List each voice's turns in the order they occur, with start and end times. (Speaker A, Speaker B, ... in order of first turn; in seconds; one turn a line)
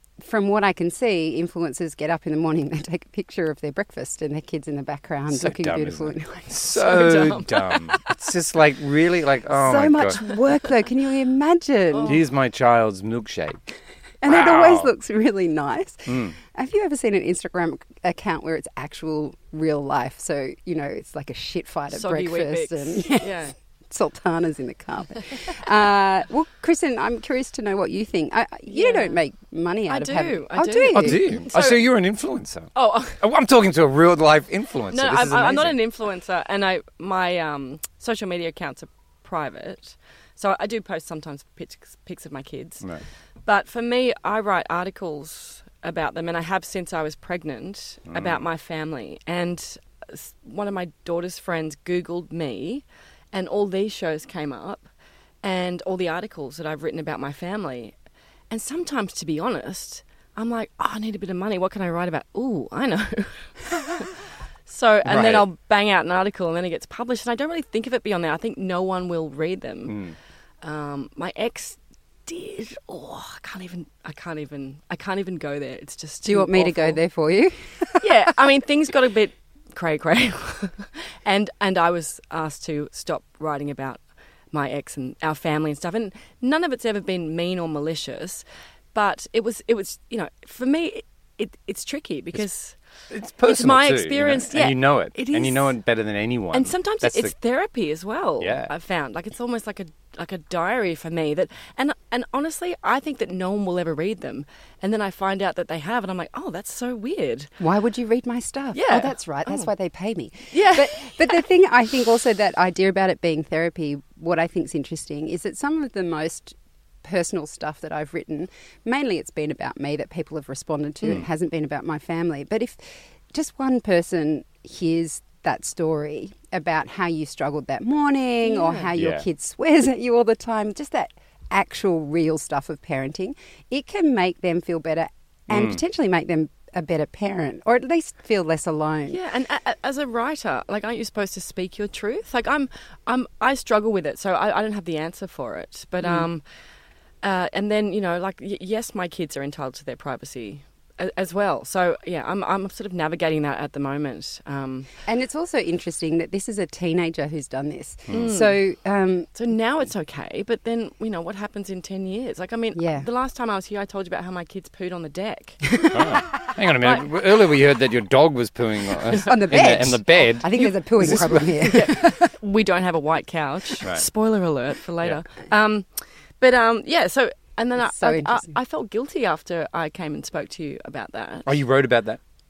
Speaker A: 0.2-6.5
Speaker B: 5.3-10.2
Speaker C: 6.7-8.1
Speaker A: 9.5-12.2
Speaker C: 11.9-12.2
Speaker B: 12.1-14.9
Speaker A: 14.2-23.3
Speaker B: 16.1-16.4
Speaker C: 21.9-23.5
Speaker A: 23.9-31.2
Speaker C: 28.7-29.2
Speaker C: 29.9-31.9
Speaker B: 30.9-35.8
Speaker C: 32.8-33.2
Speaker C: 34.9-42.9
Speaker C: 43.5-54.9
Speaker B: 48.1-48.4
Speaker C: 55.4-57.9
Speaker C: 58.5-64.1
Speaker C: 64.7-70.0
Speaker B: 65.0-65.5
Speaker B: 69.8-70.1
Speaker C: 70.6-77.0
Speaker A: 76.2-78.0
Speaker C: 78.0-84.0
Speaker C: 84.5-92.8
Speaker B: 93.1-97.3
Speaker C: 93.4-95.7
Speaker C: 96.5-107.5
Speaker B: 98.4-98.7
Speaker A: 107.6-139.2
Speaker C: 108.7-109.7
Speaker C: 110.5-111.4
Speaker C: 128.4-128.9
Speaker B: 128.9-129.2
Speaker B: 135.5-135.8
Speaker C: 139.1-146.4
Speaker C: 147.2-154.9
Speaker A: 155.1-159.3
Speaker C: 158.1-158.6
Speaker C: 159.3-165.8
Speaker A: 162.7-163.1
Speaker B: 165.9-171.4
Speaker A: 169.2-172.3
Speaker C: 170.6-181.5
Speaker A: 177.8-178.5
Speaker B: 181.4-182.2